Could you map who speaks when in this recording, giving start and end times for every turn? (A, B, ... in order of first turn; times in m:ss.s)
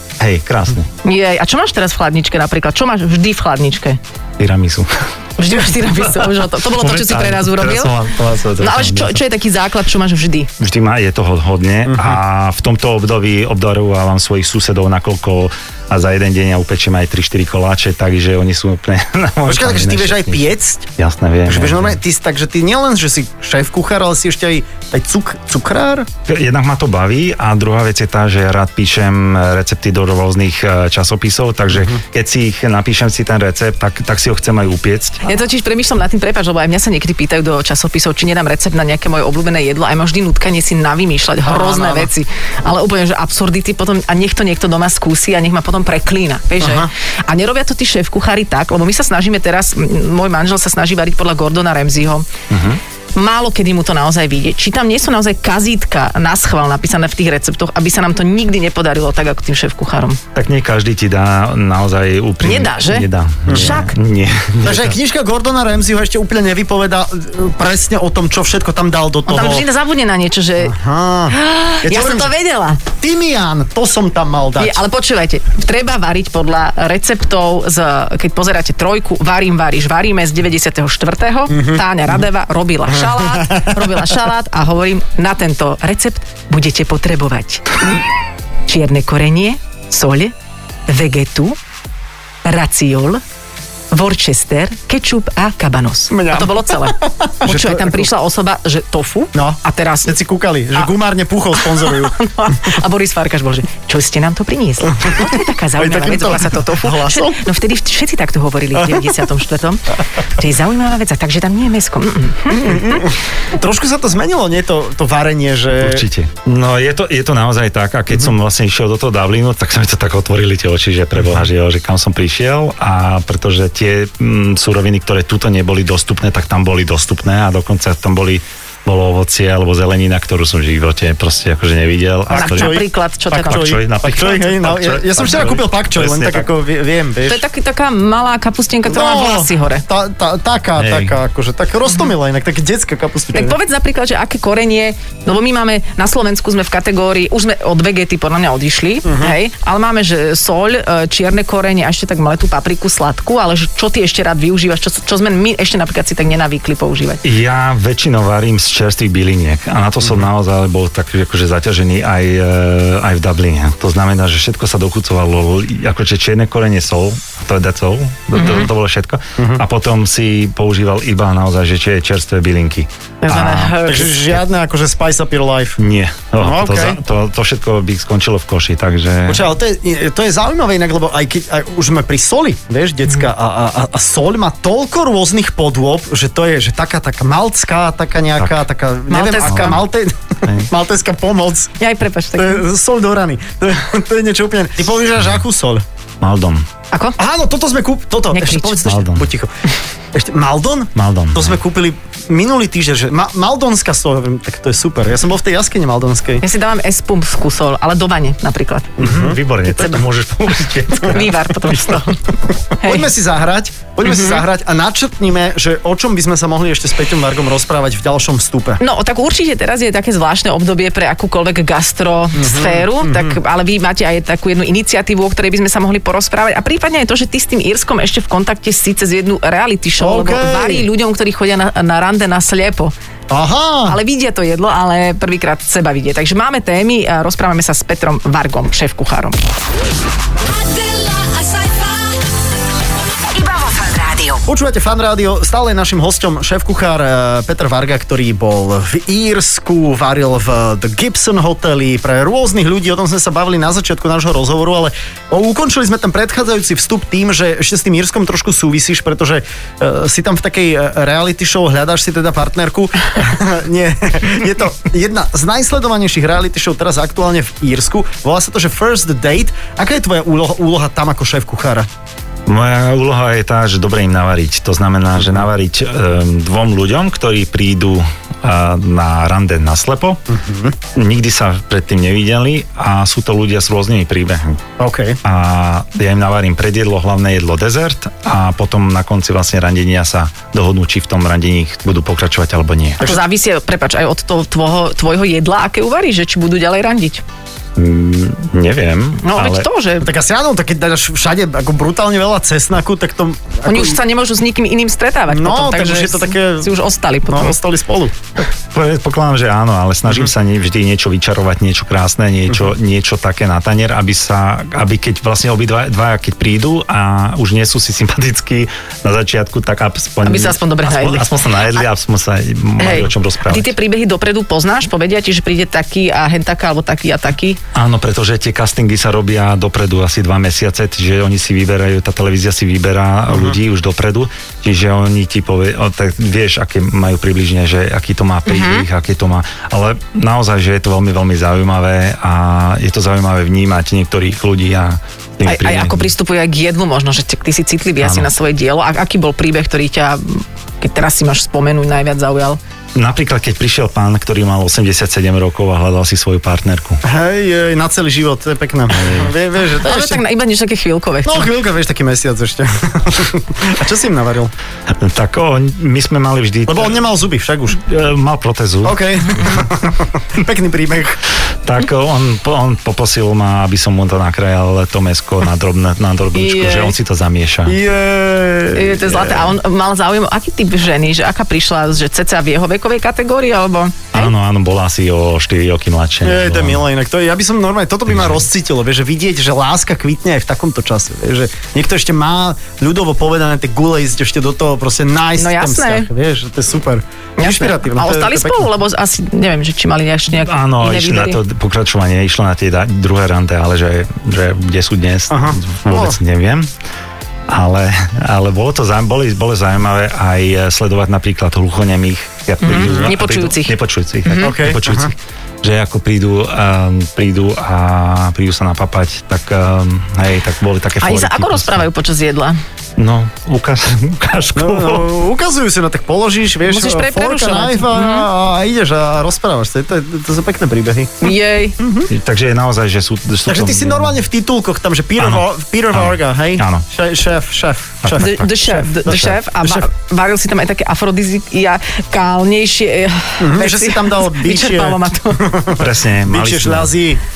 0:00.2-0:00.9 A
0:01.0-0:04.0 B
0:04.4-0:05.0 A
0:05.4-0:07.9 B
0:05.6-0:09.2 A
0:08.6-0:10.5 B
0:10.6-0:22.0 A
0:19.4-0:20.9 C
0:21.4-0:26.1 C
0:26.3-0:35.2 A
0:31.7-0:32.0 C
0:35.2-0:52.2 B
0:41.4-0:42.1 C
0:46.6-0:46.9 C
0:52.5-0:52.8 A
0:53.2-1:00.2 B
1:00.3-1:04.9 A
1:02.4-1:03.9 B
1:03.5-1:03.8 C
1:04.6-1:09.7 C
1:09.3-1:10.7 B
1:10.6-1:12.3 C
1:11.3-1:12.8 B
1:12.9-1:14.8 C
1:14.6-1:27.8 B
1:21.5-1:21.8 C
1:23.0-1:23.9 C
1:28.7-1:30.3 B
1:30.9-1:31.6 B
1:32.4-1:33.2 B
1:33.9-1:40.2 B
1:36.1-1:38.1 C
1:39.3-1:42.2 C
1:41.6-1:53.1 B
1:44.9-1:47.4 C
1:48.7-1:49.2 C
1:52.5-1:56.0 C
1:55.8-2:16.5 A
2:12.3-2:17.4 C
2:12.3-2:13.7 B
2:17.2-2:19.8 B
2:18.9-2:23.6 C
2:20.8-2:21.2 A
2:23.3-2:37.2 B
2:29.0-2:29.4 C
2:37.2-2:53.8 A
2:48.4-2:48.7 B
2:53.2-2:54.1 B
2:53.8-2:55.8 C
2:55.8-2:59.4 A
2:56.4-2:57.0 C
2:59.3-3:11.7 C
3:09.1-3:09.8 B
3:09.4-3:09.8 A
3:11.8-3:12.6 B
3:12.4-3:15.8 C
3:16.2-3:16.6 A
3:16.9-3:17.2 B
3:17.2-3:19.5 C
3:18.3-3:18.8 B
3:18.8-3:19.3 A
3:20.1-3:26.4 C
3:20.9-3:21.6 A
3:26.4-3:29.0 B
3:29.0-3:29.4 C
3:29.0-3:32.1 A
3:31.0-3:32.2 B
3:32.8-3:33.1 B
3:32.8-3:38.8 C
3:34.0-3:34.4 B
3:38.8-3:52.9 B
3:42.3-3:43.4 C
3:50.0-3:50.9 C
3:53.3-3:54.0 C
3:53.8-3:59.4 B
4:00.4-4:02.2 B
4:04.4-4:31.9 C
4:32.5-4:40.2 A
4:40.3-4:40.8 C
4:40.9-4:44.6 A
4:44.8-4:45.2 C
4:45.2-4:53.1 A
4:53.0-4:57.2 B
4:57.8-4:59.6 A
4:59.2-5:00.1 B
5:00.0-5:04.0 C
5:03.6-5:07.6 B
5:05.3-5:06.7 C
5:07.3-5:08.2 C
5:08.7-5:23.7 A
5:20.2-5:21.8 B
5:22.8-5:27.6 B
5:27.7-5:46.1 A
5:33.3-5:33.6 C
5:38.4-5:38.8 B
5:45.4-5:52.6 B
5:48.0-5:48.3 A
5:52.9-5:57.0 A
5:57.0-6:00.2 C
5:59.0-5:59.3 A
5:59.8-6:01.5 B
6:01.2-6:04.5 C
6:04.9-6:07.0 A
6:06.7-6:07.8 C
6:07.8-6:09.0 A
6:08.8-6:11.2 C
6:11.6-6:17.8 A
6:16.3-6:17.0 B
6:17.7-6:19.5 C
6:18.7-6:24.3 B
6:24.1-6:26.8 A
6:26.2-6:38.7 C
6:28.1-6:28.4 A
6:35.4-6:36.1 B
6:37.4-6:41.4 B
6:40.3-6:46.7 A
6:45.3-6:46.2 C
6:47.5-7:01.8 A
6:52.6-6:53.7 B
6:52.8-6:53.1 C
6:54.2-6:54.6 B
6:54.4-6:55.1 C
7:01.0-7:02.6 B
7:03.0-7:05.1 A
7:04.6-7:12.1 C
7:06.6-7:08.3 B
7:11.2-7:11.8 B
7:12.1-7:14.2 A
7:13.5-7:19.9 C
7:15.2-7:16.8 A
7:18.0-7:19.3 A
7:18.2-7:25.4 B
7:23.4-7:27.2 C
7:25.8-7:26.9 A